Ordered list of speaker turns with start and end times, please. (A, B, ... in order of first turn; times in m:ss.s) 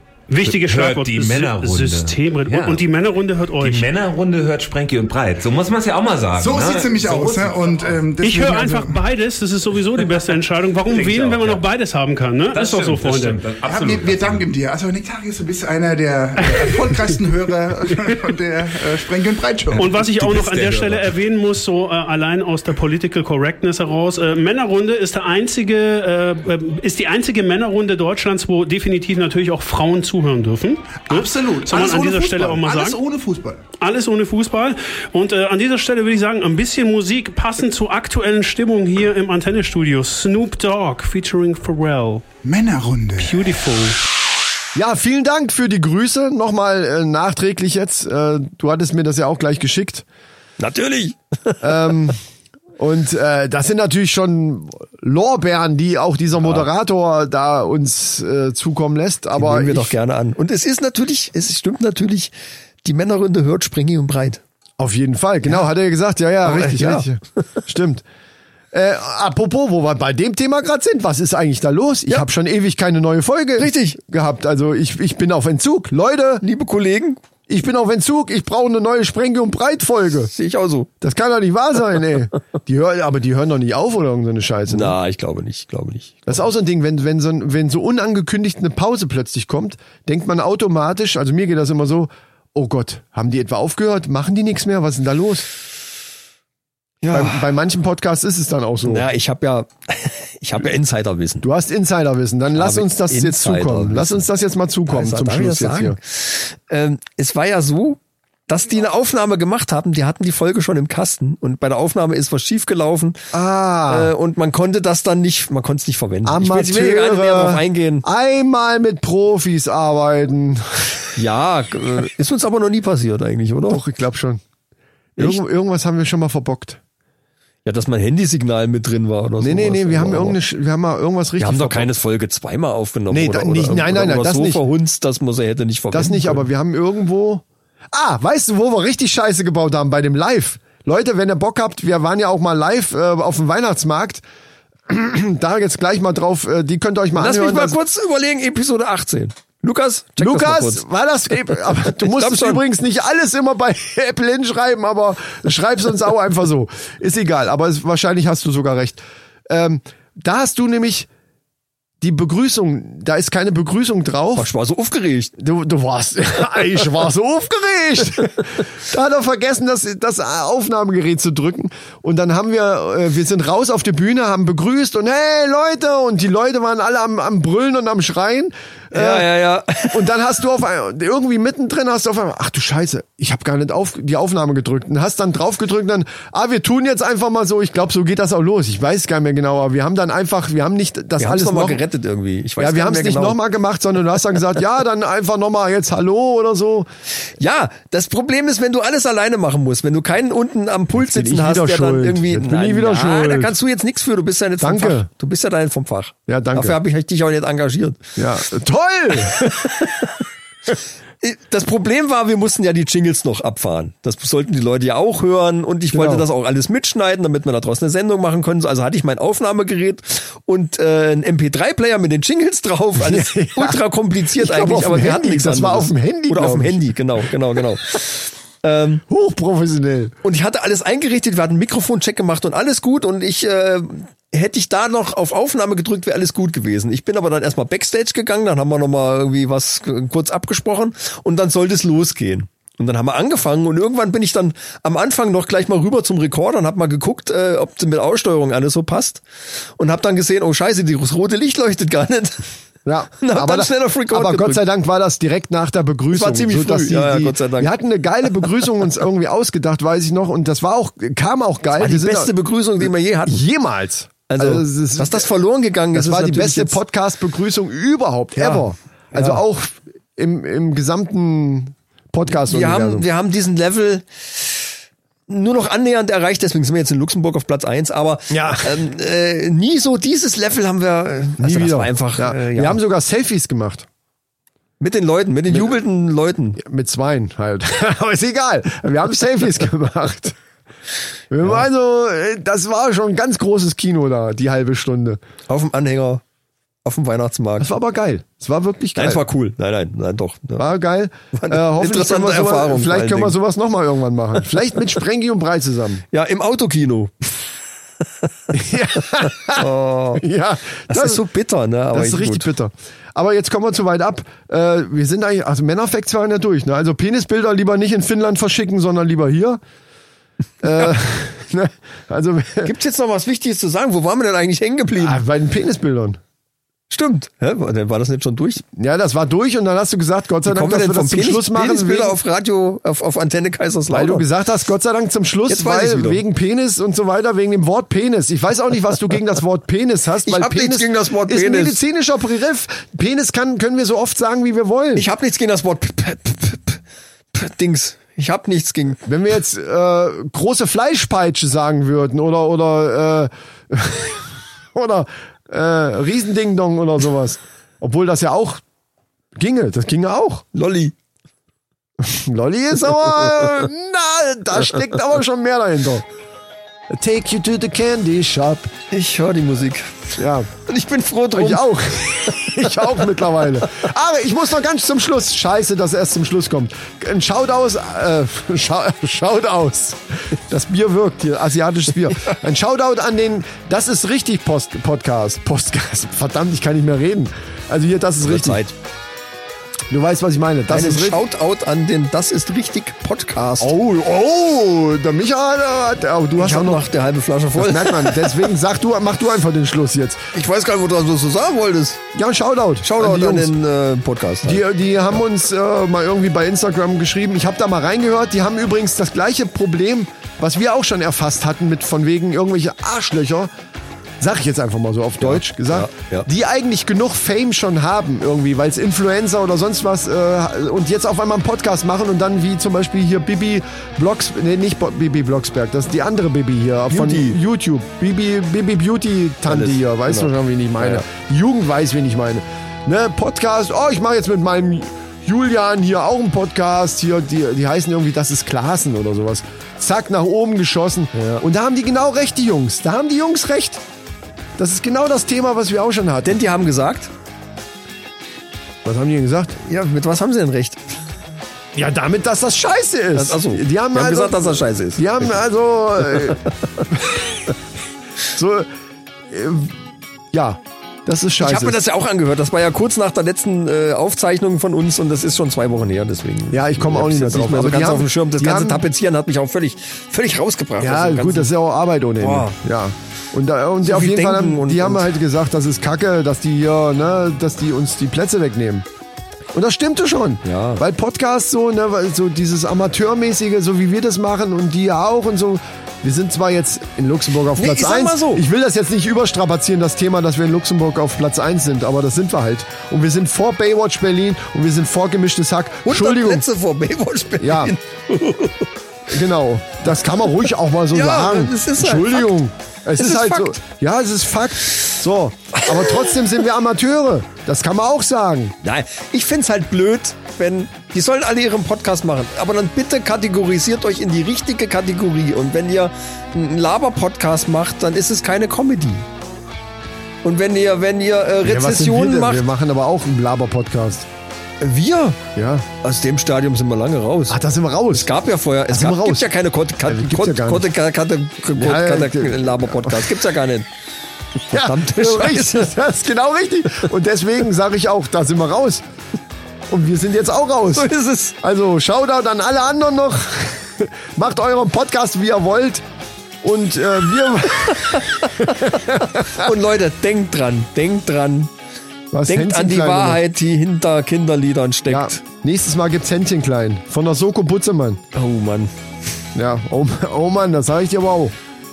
0:00.3-0:03.9 A
0:00.4-0:02.8 B
0:03.6-0:08.0 B
0:06.4-0:09.0 C
0:08.2-0:13.4 A
0:10.0-0:10.3 B
0:10.9-0:11.7 B
0:12.5-0:14.5 B
0:13.6-0:19.8 C
0:19.7-0:33.0 A
0:19.8-0:21.1 B
0:31.0-0:33.6 C
0:33.8-0:42.2 A
0:42.4-0:43.5 C
0:43.2-0:44.0 A
0:44.7-0:50.0 D
0:50.6-0:51.9 E
0:51.6-0:52.2 D
0:52.8-0:59.9 D
0:56.4-0:56.7 E
0:59.3-1:02.3 E
1:02.8-1:04.4 E
1:04.8-1:08.0 D
1:06.4-1:07.1 E
1:08.7-1:16.4 D
1:13.6-1:14.0 E
1:16.4-1:17.2 E
1:17.5-1:20.3 D
1:20.3-1:20.9 E
1:21.0-1:25.0 D
1:24.7-1:26.5 E
1:26.3-1:35.4 D
1:37.0-1:37.5 E
1:37.1-1:39.0 D
1:38.8-1:41.4 E
1:41.4-1:46.0 D
1:42.5-1:44.3 E
1:44.9-1:53.3 E
1:53.3-1:54.1 D
1:53.9-1:58.0 E
1:56.2-2:01.1 D
2:01.2-2:03.8 E
2:03.7-2:04.4 D
2:05.2-2:06.8 D
2:07.6-2:10.4 E
2:09.4-2:11.9 D
2:11.4-2:16.5 E
2:13.1-2:14.6 D
2:15.9-2:24.2 D
2:24.9-2:27.8 D
2:27.1-2:32.6 E
2:30.2-2:41.1 D
2:42.0-2:44.5 D
2:44.4-2:45.3 E
2:45.4-2:59.3 D
2:58.9-3:00.1 E
2:59.9-3:11.8 D
3:11.2-3:13.4 E
3:12.6-3:16.9 D
3:17.4-3:28.0 E
3:20.9-3:23.5 D
3:24.6-3:25.1 D
3:26.3-3:26.8 D
3:28.2-3:29.7 D
3:29.2-3:30.1 E
3:31.2-3:49.0 E
3:35.9-3:36.2 D
3:43.0-3:43.8 D
3:44.3-3:46.8 D
3:49.1-3:50.1 D
3:50.2-4:09.2 E
4:09.8-4:12.4 E
4:12.8-4:22.3 D
4:13.2-4:14.6 E
4:16.1-4:17.7 E
4:21.7-4:23.4 E
4:23.2-4:25.3 D
4:24.3-4:26.8 E
4:25.9-4:33.0 D
4:28.4-4:29.4 E
4:32.4-4:34.7 E
4:35.3-4:42.8 E
4:38.3-4:38.8 D
4:41.4-4:43.9 D
4:44.8-4:46.6 E
4:46.6-4:50.4 D
4:51.3-4:55.2 D
4:55.5-4:56.2 E
4:56.8-4:57.7 E
4:57.6-4:59.2 D
4:59.0-5:00.6 E
5:00.6-5:06.0 D
5:01.3-5:03.4 E
5:06.1-5:07.3 E
5:08.0-5:10.2 E
5:08.5-5:11.2 D
5:10.9-5:12.5 E
5:11.9-5:19.6 D
5:20.6-5:22.7 D
5:22.6-5:25.2 E
5:25.0-5:26.2 D
5:26.9-5:28.6 E
5:28.7-5:32.2 D
5:30.4-5:34.3 E
5:33.9-5:45.0 D
5:35.5-5:36.2 E
5:40.2-5:41.8 E
5:44.9-5:46.8 E
5:47.3-5:49.0 E
5:49.0-5:58.6 D
5:59.4-6:00.4 D
6:00.5-6:00.9 E
6:02.0-6:06.0 D
6:06.9-6:08.7 D
6:08.9-6:13.0 E
6:10.2-6:10.5 D
6:11.3-6:28.6 D
6:28.2-6:28.7 E
6:29.9-6:31.2 D
6:30.7-6:33.7 E
6:33.3-6:36.8 D
6:36.4-6:38.5 E
6:37.6-6:40.3 D
6:40.3-6:42.0 E
6:42.1-6:43.5 D
6:42.8-6:44.6 E
6:44.4-6:53.5 D
6:54.2-7:23.8 D
6:55.2-6:56.3 E
7:06.9-7:07.4 E
7:09.5-7:11.0 E
7:21.1-7:21.4 E
7:24.6-7:26.4 D
7:26.2-7:27.1 E
7:28.8-7:29.6 D
7:29.6-7:31.0 E
7:31.7-7:37.2 D
7:33.1-7:35.4 E
7:36.0-7:36.5 E
7:38.3-7:38.7 D
7:39.3-7:39.8 D
7:40.3-7:41.8 D
7:41.4-7:51.5 E
7:46.5-7:48.8 D
7:50.8-7:58.8 D
7:52.2-7:52.6 E
7:53.8-7:55.1 E
7:59.5-8:16.4 D
8:00.4-8:00.8 E
8:07.5-8:08.4 E
8:15.8-8:18.7 E
8:17.4-8:17.7 D
8:19.1-8:28.6 D
8:20.9-8:22.4 E
8:23.0-8:23.6 E
8:25.7-8:26.2 E
8:28.6-8:39.1 E
8:40.2-8:42.5 E
8:41.4-8:44.1 D
8:44.6-8:45.2 E
8:45.3-8:45.7 D
8:45.8-8:53.7 E
8:47.3-8:48.1 D
8:48.7-8:49.3 D
8:49.8-8:50.7 D
8:51.5-8:53.1 D
8:54.5-8:58.8 D
8:54.5-8:55.7 E
8:59.7-9:05.8 D
9:00.7-9:01.4 E
9:06.4-9:09.5 D
9:07.7-9:11.5 E
9:12.1-9:13.2 D
9:12.2-9:15.2 E
9:14.9-9:18.0 D
9:18.1-9:18.7 E
9:19.3-9:21.4 D